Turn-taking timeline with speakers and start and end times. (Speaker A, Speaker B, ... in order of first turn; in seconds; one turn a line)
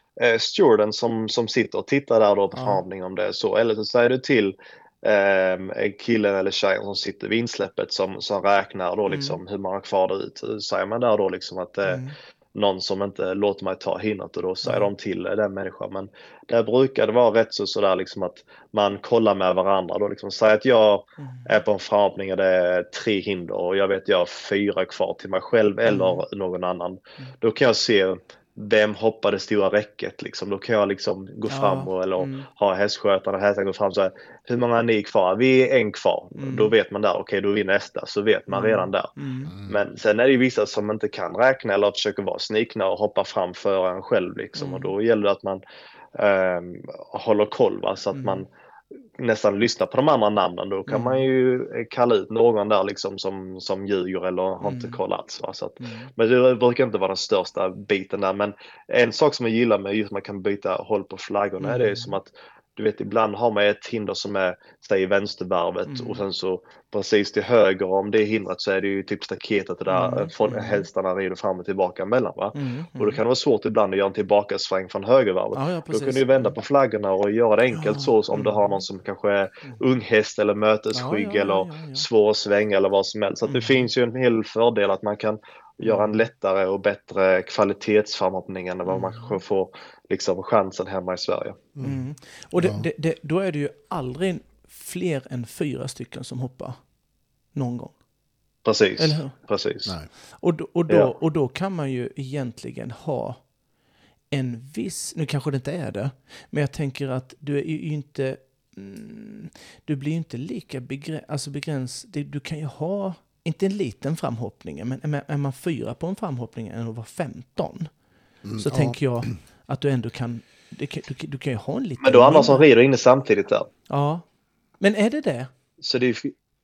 Speaker A: 0.2-12.0
Speaker B: 2.5-2.8
Speaker B: 9.1-9.4
Speaker B: 11.8-12.1
Speaker A: 12.5-45.6
Speaker B: 14.6-14.9
Speaker B: 21.2-21.6
Speaker B: 25.9-26.2
Speaker B: 31.5-32.5
Speaker B: 36.4-36.7
Speaker B: 38.5-39.5
Speaker C: 39.5-39.8
Speaker B: 44.6-44.9
Speaker A: 46.1-48.5
Speaker B: 48.1-48.4
Speaker A: 49.2-91.6
Speaker B: 50.9-51.2
Speaker B: 54.6-55.0
Speaker B: 55.8-56.1
Speaker B: 61.6-62.1
Speaker B: 65.9-66.2
Speaker B: 69.9-70.9
Speaker B: 72.5-73.2
Speaker B: 75.5-76.5
Speaker B: 77.7-78.8
Speaker B: 80.9-82.0
Speaker B: 83.5-83.9
Speaker B: 85.8-86.2
Speaker B: 88.8-89.4
Speaker C: 91.8-92.0
Speaker B: 91.8-96.8
Speaker C: 92.5-92.8
Speaker B: 97.5-97.9
Speaker A: 98.6-99.9
Speaker B: 99.0-99.3
Speaker C: 99.8-100.1
Speaker B: 100.3-103.4
Speaker B: 104.3-117.9
Speaker C: 118.4-119.3
Speaker B: 118.6-122.7
Speaker A: 122.0-123.7
Speaker B: 123.9-124.2
Speaker B: 124.8-125.5
Speaker A: 125.8-126.3